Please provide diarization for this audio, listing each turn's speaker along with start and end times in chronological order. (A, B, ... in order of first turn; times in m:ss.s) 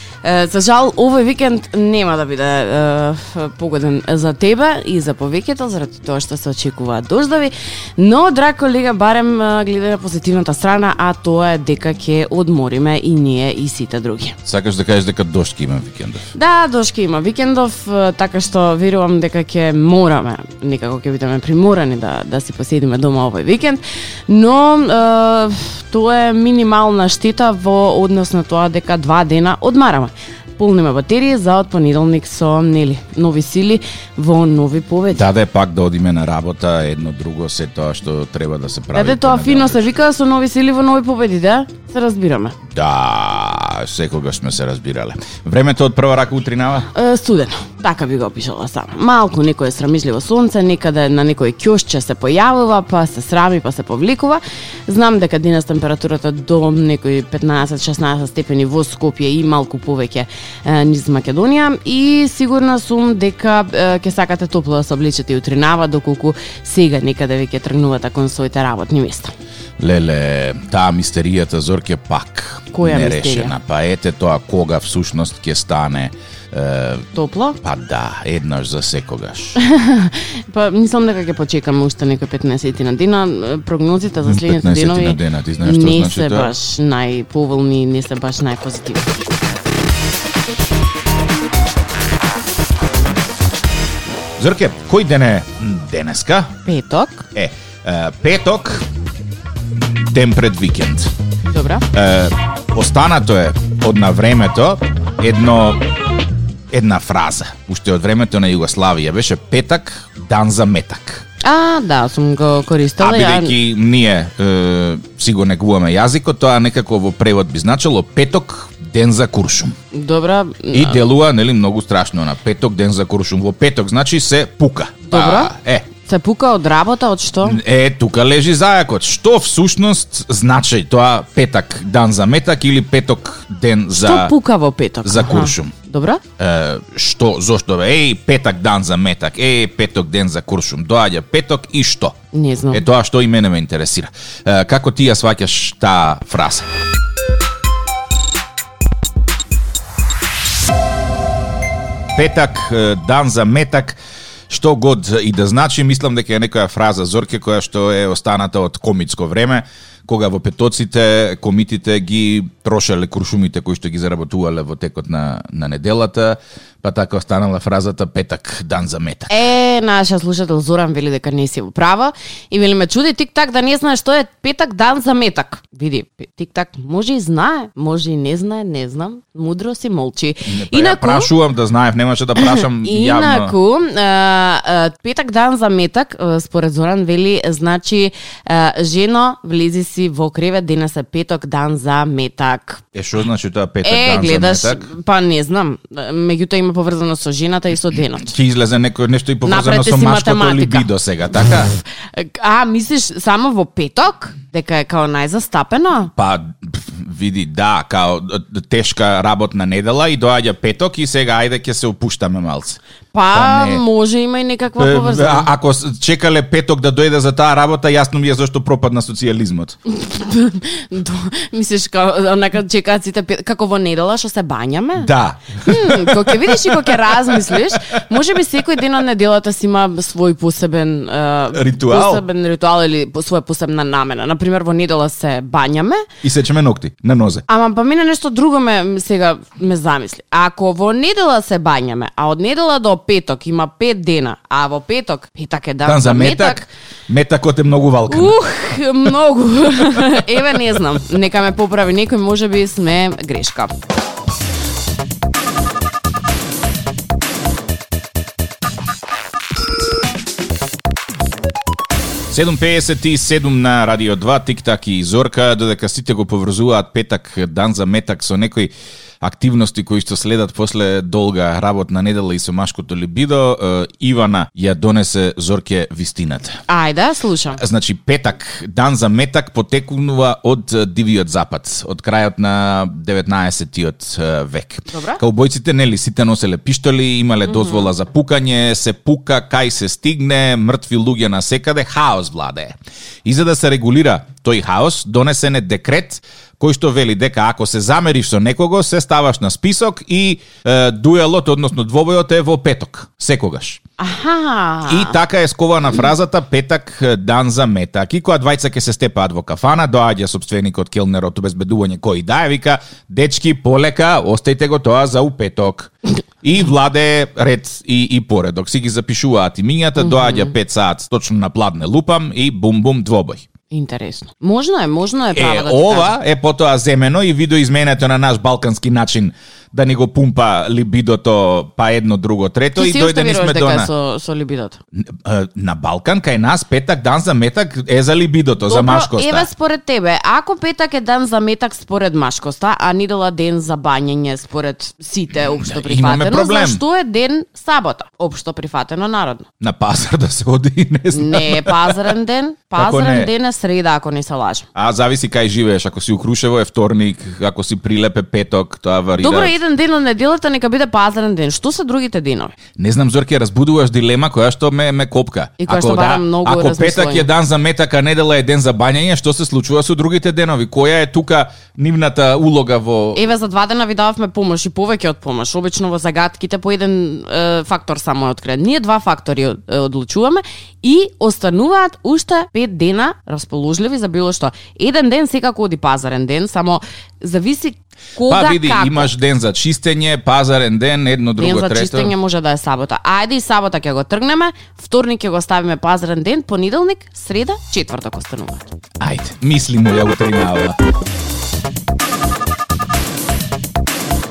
0:00.2-0:14.4 A
0:14.4-0:16.3 B
0:16.3-0:35.2 A
0:35.1-0:39.8 B
0:38.9-0:42.6 A
0:42.7-0:46.9 B
0:46.9-1:09.3 A
1:09.8-1:17.1 B
1:12.7-1:13.5 A
1:17.1-1:17.6 A
1:17.6-1:19.6 B
1:19.6-1:29.5 A
1:24.2-1:26.5 B
1:34.4-1:36.5 B
1:36.7-1:37.3 A
1:37.3-1:38.8 B
1:40.0-1:41.1 B
1:41.5-1:41.8 A
1:41.9-1:45.8 B
1:46.7-1:51.2 B
1:51.4-1:53.6 A
1:53.0-1:59.8 B
1:59.9-2:01.0 A
2:00.7-2:05.9 B
2:05.1-2:07.6 A
2:07.4-2:14.3 B
2:13.9-2:16.2 A
2:15.0-2:15.8 B
2:16.4-2:22.2 B
2:22.3-2:22.8 A
2:22.7-2:26.7 B
2:32.1-2:34.0 B
2:34.5-2:49.4 B
2:49.3-3:01.3 A
3:00.5-3:03.6 B
3:02.4-3:12.8 A
3:12.9-3:14.9 B
3:13.8-3:18.3 A
3:18.2-3:21.7 B
3:19.5-3:20.9 A
3:22.1-3:26.1 A
3:26.2-3:32.8 B
3:33.1-3:35.5 A
3:33.3-3:33.8 B
3:34.8-3:39.8 B
3:39.9-3:45.1 A
3:45.0-3:47.8 B
3:45.6-3:56.0 A
3:51.5-3:52.2 B
3:56.2-3:57.4 B
3:57.5-4:06.7 A
4:05.8-4:08.4 B
4:08.1-4:13.7 A
4:22.3-4:36.6 B
4:36.7-4:37.6 A
4:37.6-5:03.8 B
4:44.9-4:45.2 A
4:47.5-4:47.9 A
5:04.0-5:05.2 A
5:04.9-5:23.5 B
5:20.0-5:20.5 A
5:23.7-5:26.1 A
5:25.3-5:33.9 B
5:32.8-5:34.8 A
5:35.0-5:39.5 B
5:38.7-5:49.5 A
5:45.5-5:46.8 B
5:49.6-5:52.1 B
5:51.1-5:54.7 A
5:52.8-5:53.3 B
5:54.8-5:59.6 B
5:59.2-6:02.5 A
6:02.8-6:13.2 B
6:05.6-6:07.3 A
6:13.2-6:29.1 A
6:28.3-6:32.1 B
6:31.4-6:38.7 A
6:39.0-6:40.8 B